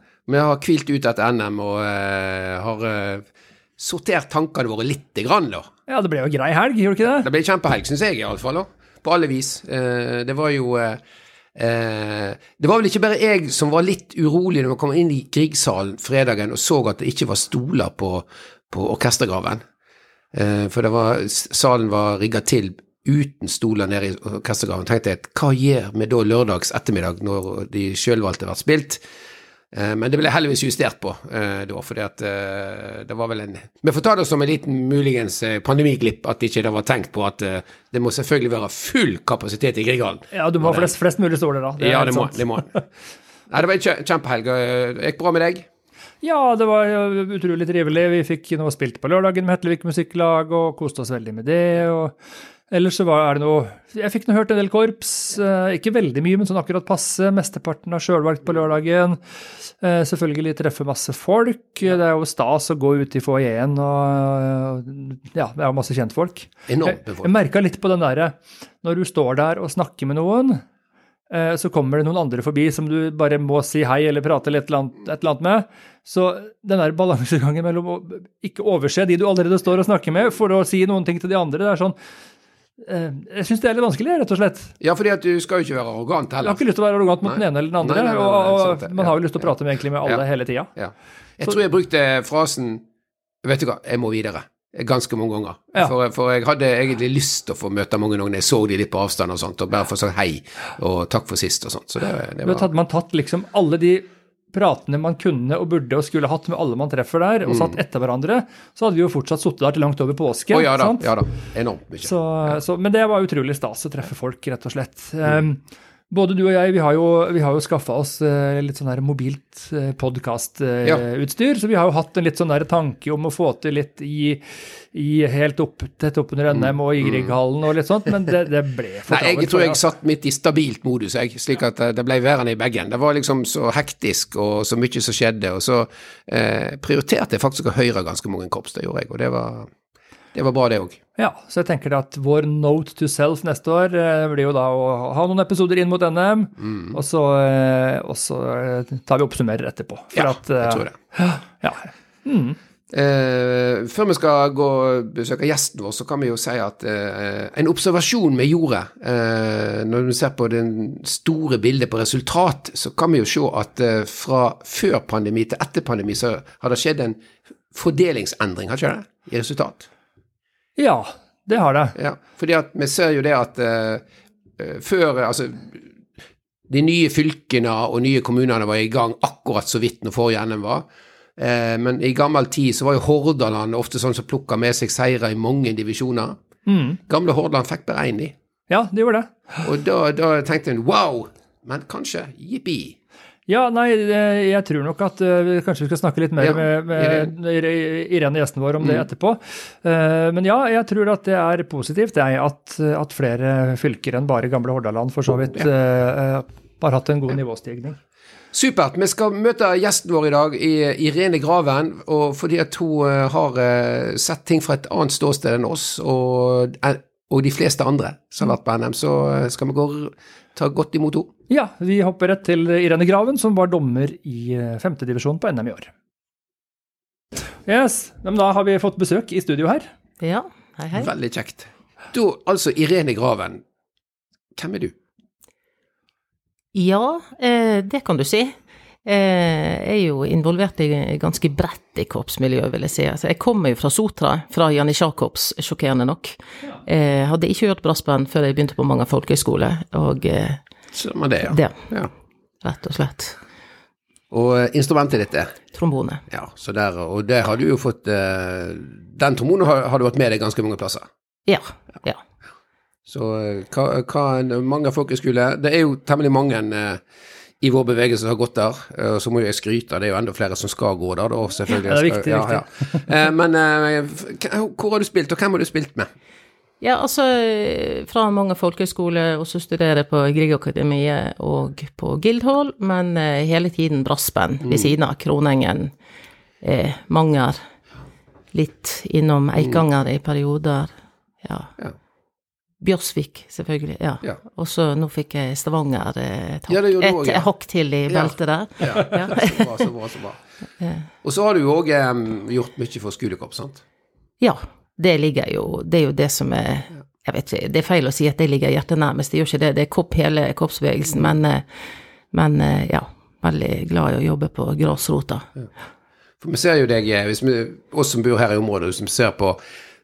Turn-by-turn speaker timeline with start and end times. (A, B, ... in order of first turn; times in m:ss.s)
0:00.3-0:03.2 A
0:03.8-0:05.7 A
0:05.9-0:07.3 B
0:07.2-0:11.0 A
0:11.5-0:19.6 A
0:20.3-0:29.0 A
0:29.7-0:40.9 A
0:40.3-0:42.8 B
0:41.8-0:42.7 A
0:43.5-0:45.7 A
0:46.2-0:52.2 B
0:52.7-1:10.6 B
1:06.7-1:07.3 A
1:11.3-1:22.0 B
1:22.8-1:24.7 B
1:24.8-1:26.6 A
1:26.4-1:30.7 B
1:27.2-1:29.1 A
1:30.8-1:32.8 A
1:33.4-1:42.7 A
1:42.4-1:51.1 B
1:47.5-1:47.7 A
1:50.5-1:52.6 A
1:52.0-2:09.8 B
2:06.5-2:07.4 A
2:09.1-2:19.7 A
2:20.3-2:21.0 A
2:21.2-2:32.6 B
2:30.1-2:30.9 A
2:32.9-2:47.2 A
2:47.7-2:49.9 A
2:50.8-2:51.9 B
2:52.0-2:54.0 A
2:54.6-2:55.8 A
2:56.7-3:00.8 A
3:01.4-3:06.4 A
3:06.7-3:07.0 B
3:07.1-3:08.3 A
3:08.7-3:09.6 B
3:09.6-3:13.0 A
3:13.5-3:28.0 B
3:16.4-3:17.3 A
3:28.5-3:41.3 A
3:41.5-3:45.9 B
3:47.6-3:49.9 B
3:50.2-3:51.1 C
3:50.9-3:53.6 A
3:54.6-3:55.0 A
3:56.7-4:10.6 C
4:10.9-4:12.1 A
4:11.5-4:11.8 C
4:12.6-4:13.4 C
4:14.3-4:15.6 A
4:15.7-4:16.2 C
4:16.3-4:21.1 A
4:21.5-4:22.2 C
4:23.1-4:27.0 A
4:27.6-4:36.1 A
4:31.7-4:33.0 B
4:36.8-4:45.9 C
4:46.6-4:47.6 C
4:48.5-4:50.9 C
4:51.4-4:51.7 C
4:52.8-4:59.9 C
4:56.7-4:57.5 A
4:58.1-5:00.4 A
5:00.8-5:01.0 C
5:01.2-5:03.8 A
5:04.4-5:15.5 C
5:16.4-5:19.6 A